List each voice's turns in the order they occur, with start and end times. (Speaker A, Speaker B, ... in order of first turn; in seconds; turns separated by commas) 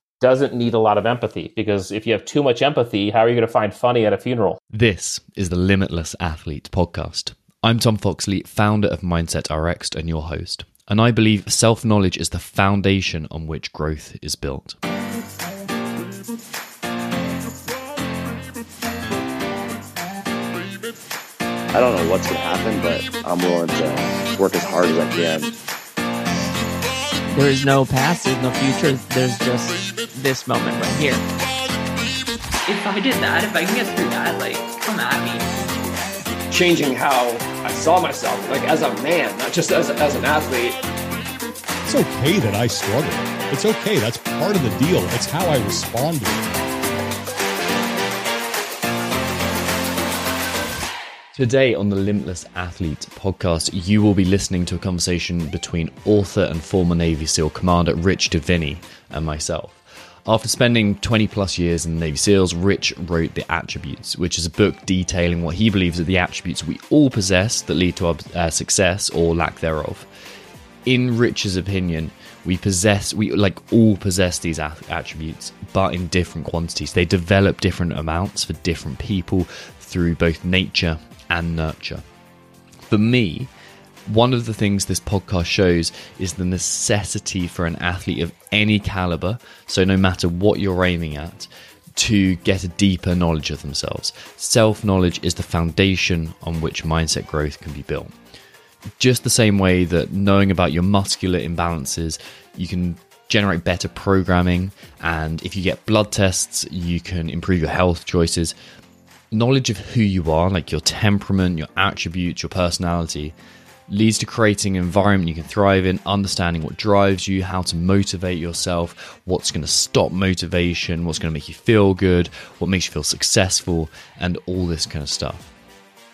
Speaker A: 0.2-4.6, Speaker B: 4.7-14.8, Speaker C: 21.7-25.5, Speaker D: 27.3-31.2, Speaker E: 32.7-35.5, Speaker F: 36.5-40.8, Speaker G: 41.9-46.5, Speaker B: 51.3-70.1, Speaker B: 70.8-82.0, Speaker B: 82.8-83.5, Speaker B: 84.1-98.1, Speaker B: 99.0-108.5, Speaker B: 109.3-113.3, Speaker B: 113.9-125.5